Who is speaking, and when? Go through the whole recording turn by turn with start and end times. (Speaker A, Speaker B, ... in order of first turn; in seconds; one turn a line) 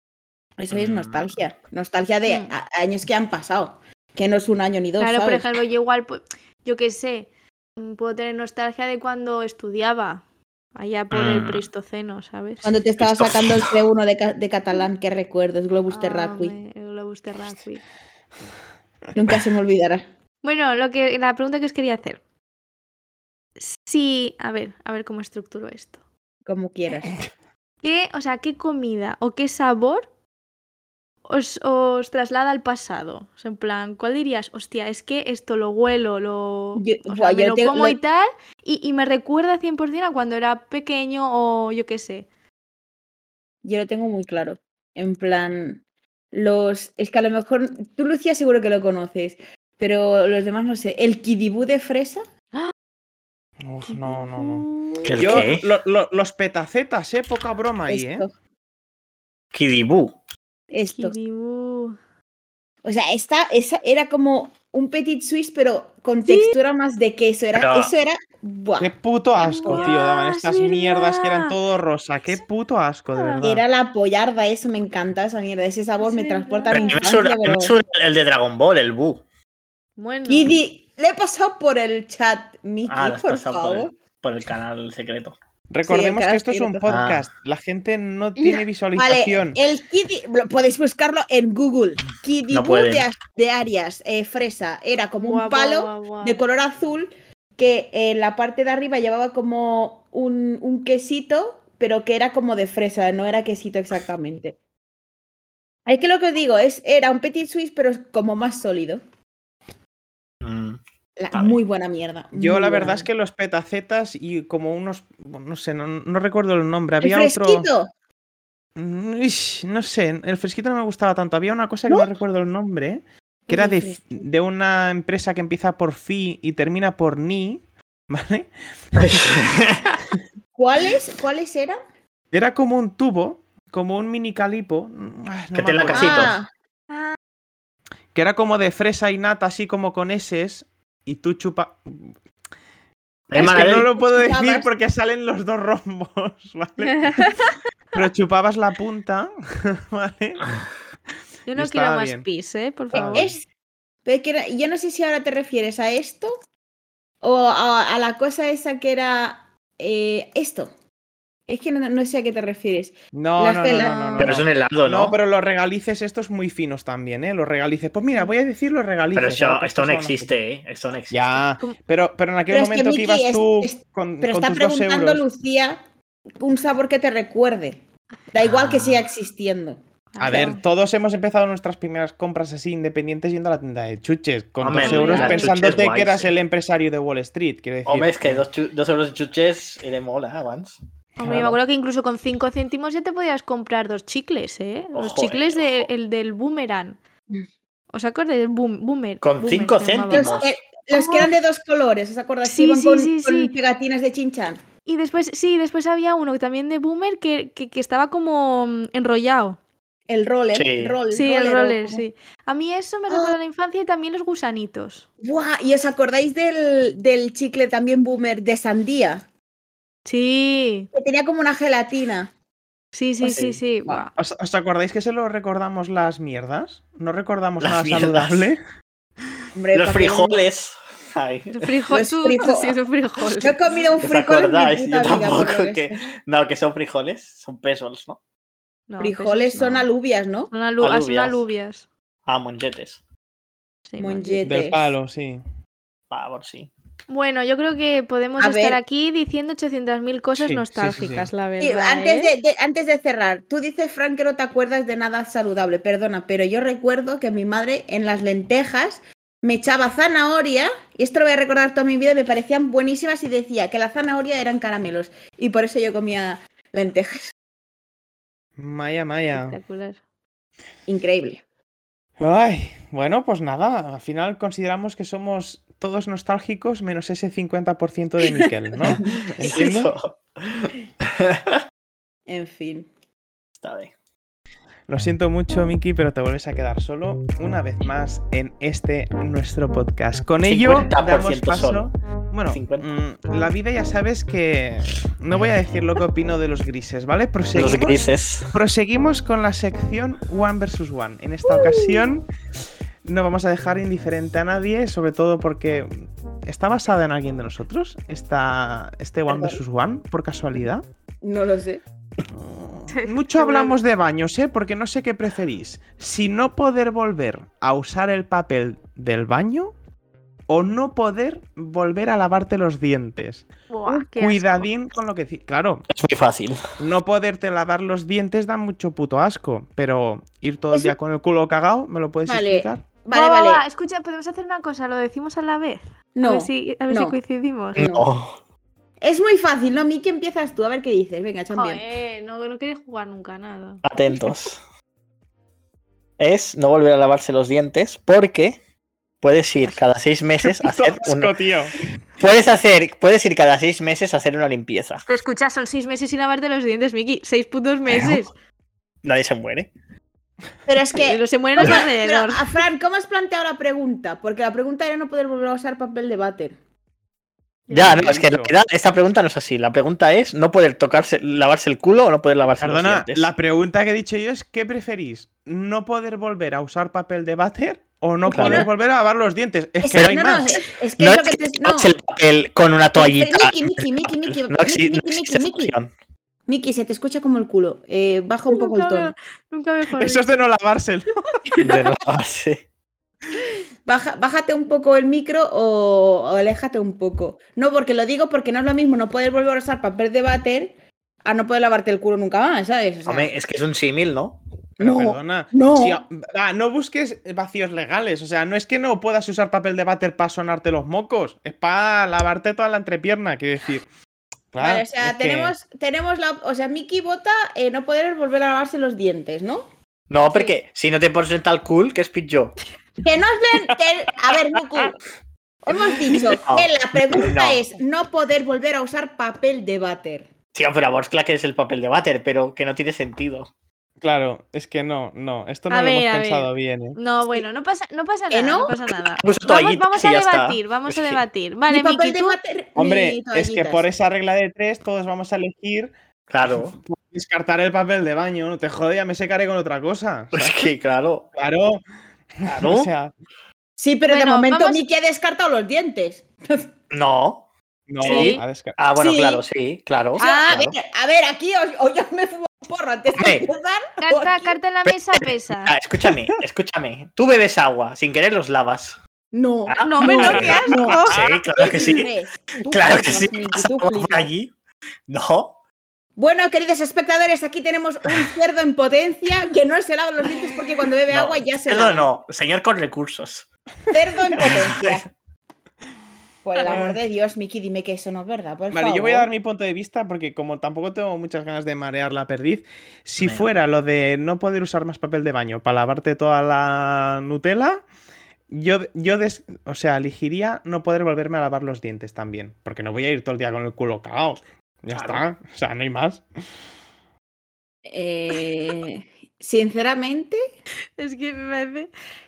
Speaker A: 0.6-5.5
Speaker B: 0.7-1.4
Speaker C: 2.3-2.5
Speaker C: 5.0-10.2
Speaker C: 10.8-12.7
Speaker B: 11.1-11.7
Speaker A: 12.6-16.6
Speaker B: 13.0-13.8
Speaker C: 15.9-17.8
Speaker A: 19.1-20.0
Speaker C: 20.4-22.2
Speaker C: 23.6-26.0
Speaker A: 26.5-27.2
Speaker C: 27.8-30.1
Speaker C: 31.2-42.3
Speaker A: 36.8-38.0
Speaker A: 43.6-45.8
Speaker A: 46.3-52.2
Speaker D: 53.6-58.3
Speaker C: 53.9-55.4
Speaker B: 55.0-55.7
Speaker A: 57.9-58.3
Speaker B: 59.5-60.1
Speaker A: 60.7-61.2
Speaker C: 60.9-62.0
Speaker A: 62.9-68.9
Speaker C: 66.3-66.6
Speaker B: 67.5-67.9
Speaker D: 68.8-73.6
Speaker C: 69.4-71.5
Speaker A: 69.7-69.9
Speaker C: 73.2-73.5
Speaker A: 73.4-77.8
Speaker C: 76.0-77.1
Speaker B: 76.7-79.2
Speaker C: 80.0-80.6
Speaker A: 80.3-83.9
Speaker B: 82.9-85.4
Speaker D: 85.7-89.6
Speaker A: 85.8-86.8
Speaker B: 86.9-87.2
Speaker A: 88.4-104.6
Speaker B: 92.5-93.1
Speaker C: 95.2-96.4
Speaker A: 105.9-109.0
Speaker B: 110.4-110.8
Speaker A: 111.2-113.1
Speaker B: 111.3-111.6
Speaker D: 112.3-117.7
Speaker A: 117.0-117.9
Speaker D: 118.8-129.3
Speaker A: 123.5-124.0
Speaker B: 129.0-130.0
Speaker A: 130.6-131.8
Speaker D: 132.3-136.4
Speaker B: 135.5-136.4
Speaker A: 135.9-136.5
Speaker C: 136.9-137.2
Speaker D: 138.1-142.1
Speaker B: 143.3-143.9
Speaker D: 143.3-150.4
Speaker A: 144.0-144.7
Speaker C: 146.9-147.5
Speaker C: 151.5-153.3
Speaker D: 151.6-152.2
Speaker A: 152.9-153.5
Speaker D: 152.9-153.3
Speaker A: 154.1-156.3
Speaker A: 157.2-160.7
Speaker A: 161.5-164.2
Speaker D: 163.1-170.3
Speaker C: 163.6-164.3
Speaker B: 164.2-165.2
Speaker B: 169.2-171.4
Speaker D: 171.1-175.2
Speaker A: 172.5-175.8
Speaker A: 176.4-177.8
Speaker A: 178.3-180.6
Speaker B: 178.4-179.1
Speaker C: 180.2-180.6
Speaker D: 180.2-188.4
Speaker B: 184.6-186.3
Speaker C: 184.8-185.6
Speaker B: 187.9-191.6
Speaker C: 191.2-197.0
Speaker B: 194.9-195.9
Speaker C: 197.9-200.4
Speaker B: 199.2-200.5
Speaker A: 200.1-204.6
Speaker C: 200.9-201.3
Speaker C: 202.5-203.5
Speaker C: 204.9-209.6
Speaker A: 210.1-212.0
Speaker B: 210.5-211.0
Speaker C: 211.1-215.1
Speaker A: 213.1-213.4
Speaker A: 215.2-219.2
Speaker C: 220.1-220.9
Speaker A: 220.9-222.3
Speaker C: 222.9-224.1
Speaker B: 223.2-223.6
Speaker D: 224.2-228.6
Speaker B: 227.6-228.5
Speaker A: 229.6-230.4
Speaker B: 229.7-231.7
Speaker C: 231.5-233.6
Speaker A: 231.9-232.8
Speaker A: 233.4-236.1
Speaker B: 234.0-238.2
Speaker C: 238.9-239.9
Speaker A: 239.0-240.5
Speaker C: 240.5-241.8
Speaker B: 240.8-241.4
Speaker B: 242.3-243.0
Speaker C: 243.9-244.4
Speaker A: 244.0-244.9
Speaker D: 244.4-245.4
Speaker B: 246.1-246.7
Speaker C: 247.1-252.3
Speaker A: 248.4-248.8
Speaker D: 250.4-251.3
Speaker A: 251.6-267.3
Speaker D: 268.6-269.6
Speaker C: 269.3-270.0
Speaker A: 270.9-271.4
Speaker D: 272.2-279.9
Speaker A: 278.3-279.6
Speaker B: 279.4-281.6
Speaker A: 282.3-282.9
Speaker B: 283.6-283.9
Speaker D: 284.9-302.3
Speaker B: 290.4-291.8
Speaker B: 292.5-292.9
Speaker B: 297.6-298.5
Speaker C: 301.5-302.0
Speaker D: 303.1-310.8
Speaker A: 309.3-309.6
Speaker A: 311.2-311.8
Speaker D: 312.3-319.7
Speaker C: 312.9-313.8
Speaker D: 320.5-325.9
Speaker C: 323.7-324.7
Speaker B: 325.9-326.6
Speaker D: 326.8-332.8
Speaker A: 332.3-333.6
Speaker C: 333.1-337.8
Speaker A: 336.1-337.2
Speaker A: 337.8-338.1
Speaker B: 337.8-338.4
Speaker A: 339.0-341.8
Speaker C: 341.5-343.8
Speaker B: 343.8-344.6
Speaker B: 346.2-348.6
Speaker B: 349.2-351.3
Speaker D: 350.4-351.8
Speaker B: 352.2-355.1
Speaker C: 355.1-358.3
Speaker B: 357.9-358.2
Speaker B: 359.0-359.7
Speaker A: 360.7-366.6
Speaker C: 361.0-362.6
Speaker C: 367.7-368.1
Speaker B: 367.7-373.3
Speaker D: 367.7-368.5
Speaker D: 372.6-380.5
Speaker A: 378.3-378.7
Speaker B: 378.3-378.7
Speaker A: 379.8-381.9
Speaker B: 379.9-385.9
Speaker A: 383.0-385.7
Speaker A: 386.5-389.1
Speaker C: 388.5-390.5
Speaker D: 389.9-391.4
Speaker C: 391.5-391.9
Speaker B: 391.6-392.6
Speaker A: 393.9-403.3
Speaker B: 403.1-404.4
Speaker A: 404.8-406.0
Speaker D: 404.8-413.9
Speaker D: 414.5-415.5
Speaker A: 414.6-419.7
Speaker B: 420.1-422.6
Speaker A: 423.0-425.0
Speaker A: 425.6-430.3
Speaker B: 426.3-427.6
Speaker B: 430.5-433.5
Speaker D: 434.0-437.0
Speaker C: 435.7-442.4
Speaker A: 438.3-438.8
Speaker B: 439.2-441.2
Speaker A: 441.7-443.9
Speaker D: 442.8-445.9
Speaker B: 446.3-446.8
Speaker D: 446.5-450.7
Speaker B: 450.3-451.3
Speaker D: 451.4-451.8
Speaker D: 452.4-453.1
Speaker B: 452.5-452.9
Speaker A: 453.8-456.7
Speaker C: 454.1-454.8
Speaker B: 456.9-457.5
Speaker D: 457.9-458.8
Speaker B: 458.0-460.8
Speaker C: 458.0-458.4
Speaker A: 459.0-459.4
Speaker A: 460.2-464.6
Speaker C: 460.2-460.6
Speaker B: 463.2-463.5
Speaker C: 464.0-465.7
Speaker B: 464.8-469.0
Speaker A: 469.3-474.3
Speaker B: 469.7-472.1
Speaker C: 469.8-472.0
Speaker D: 470.1-471.4
Speaker B: 472.7-474.5
Speaker B: 475.1-475.6
Speaker A: 476.2-482.1
Speaker B: 481.1-483.5
Speaker A: 483.9-485.1
Speaker B: 484.4-485.0
Speaker A: 486.4-489.3
Speaker C: 486.6-486.9
Speaker D: 488.7-497.8
Speaker B: 493.2-493.5
Speaker D: 498.5-506.2
Speaker B: 504.9-505.2
Speaker A: 507.9-510.4
Speaker C: 511.0-511.9